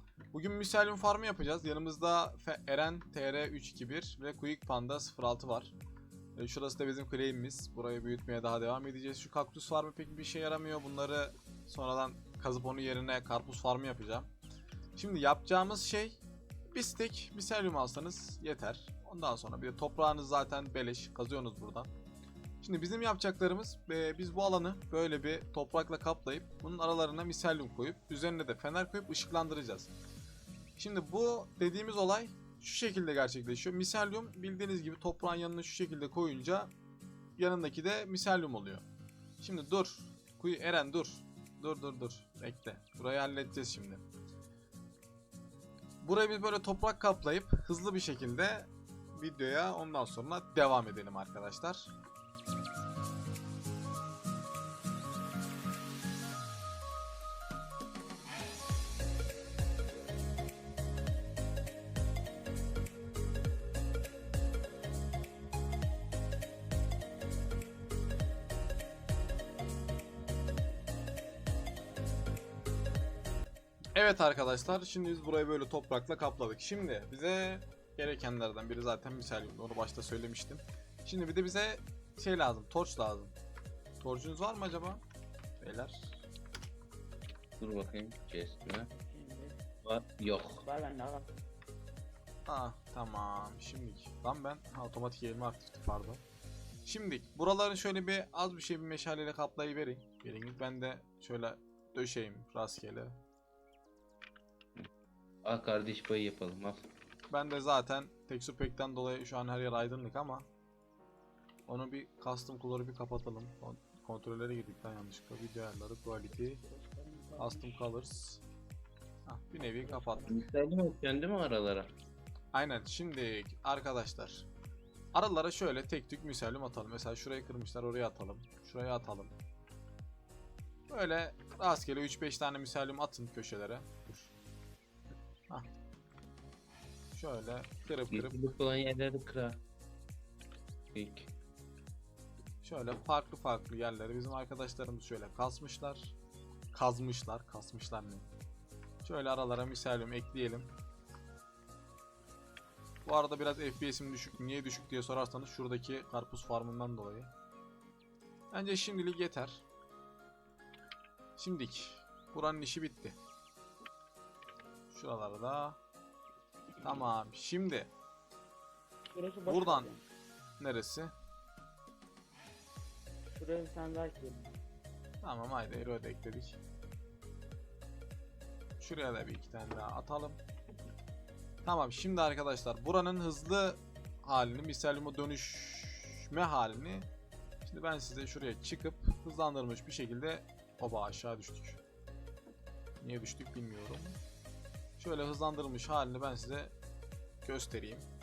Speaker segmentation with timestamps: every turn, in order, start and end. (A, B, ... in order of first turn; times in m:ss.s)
0:00.3-0:05.8 A
0:06.4-0:14.3 A
0:15.0-0:16.2 A
0:16.7-0:21.9 A
0:22.6-0:29.9 A
0:30.8-0:36.7 A
0:37.4-0:38.9 A
0:39.4-0:44.0 A
0:46.0-0:51.9 A
1:14.0-1:23.4 A
1:24.0-1:25.0 A
1:25.6-1:26.2 A
1:27.6-1:28.9 B
1:28.9-1:29.6 C
1:29.8-1:30.6 B
1:30.5-1:31.3 C
1:32.5-1:36.2 A
1:36.9-1:43.2 A
1:45.4-1:46.9 B
1:47.3-1:50.5 A
1:51.7-1:56.6 A
1:56.4-1:57.7 C
1:57.4-1:58.4 A
1:59.3-2:00.3 A
1:59.6-2:00.4 C
2:00.3-2:01.9 B
2:02.5-2:04.5 A
2:05.1-2:09.4 A
2:10.9-2:14.3 A
2:17.1-2:18.5 A
2:18.1-2:19.6 B
2:20.9-2:21.3 B
2:22.6-2:26.2 A
2:26.7-2:28.3 A
2:29.0-2:30.7 A
2:33.0-2:37.3 A
2:38.5-2:39.7 A
2:41.4-2:43.2 A
2:44.9-2:45.8 A
2:46.8-2:47.9 A
2:49.1-2:50.1 C
2:49.5-2:49.9 A
2:50.6-2:51.1 A
2:53.3-2:54.6 C
2:55.2-2:56.6 A
2:58.8-3:00.4 A
3:01.6-3:07.1 A
3:07.6-3:11.8 A
3:13.0-3:14.2 A
3:15.0-3:16.8 A
3:17.4-3:18.1 A